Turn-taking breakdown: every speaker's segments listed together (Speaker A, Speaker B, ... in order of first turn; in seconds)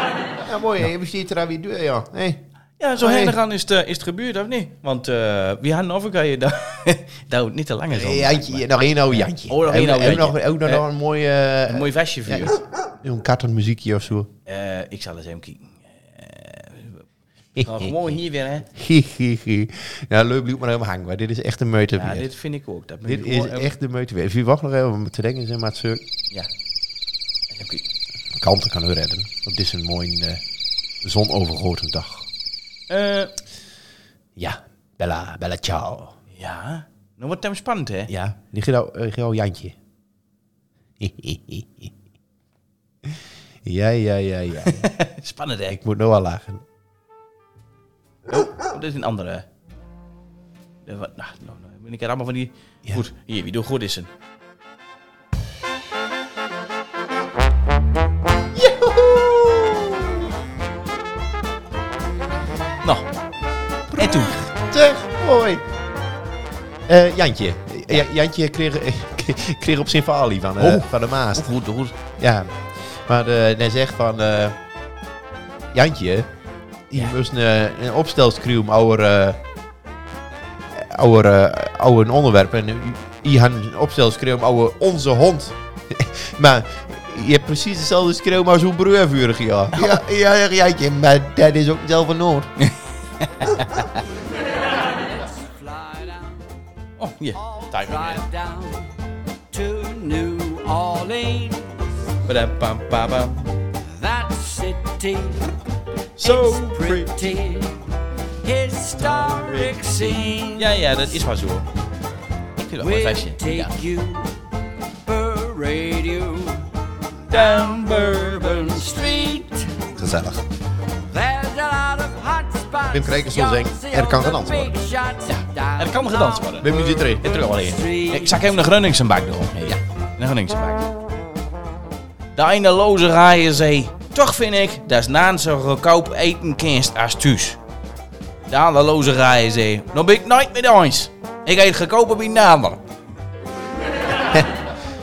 Speaker A: 0.4-2.4, 3.0-3.4, 7.9-14.3, 17.6-22.3, 23.0-26.0, 28.4-30.4, 31.0-32.3, 34.4-36.2, 38.1-39.8, 41.0-41.9, 43.6-44.9, 45.7-46.6, 58.5-60.2, 63.9-65.6, 66.9-71.5, 72.2-74.6, 75.7-76.3, 76.9-79.4, 80.7-92.5, 120.0-120.4, 122.9-124.8, 126.6-127.3, 144.1-144.6
Speaker B: 2.8-10.8, 11.7-12.6, 14.4-17.0, 17.6-18.6, 21.9-23.7, 27.5-27.9, 32.9-33.3, 36.3-38.1, 44.6-45.8, 48.3-49.5, 50.8-54.1, 62.8-63.1, 64.0-64.3, 70.6-71.9, 92.6-94.0, 97.0-98.2, 102.2-103.6, 106.2-107.4, 109.0-111.7, 112.6-113.7, 117.3-118.9, 125.2-130.9, 132.3-137.6, 138.5-142.8
Speaker C: 95.0-96.5, 97.3-98.9, 99.5-101.8, 103.8-105.5, 106.2-107.8, 108.4-110.8, 112.8-114.3, 115.0-116.7, 117.3-119.9, 121.1-126.5, 127.5-128.4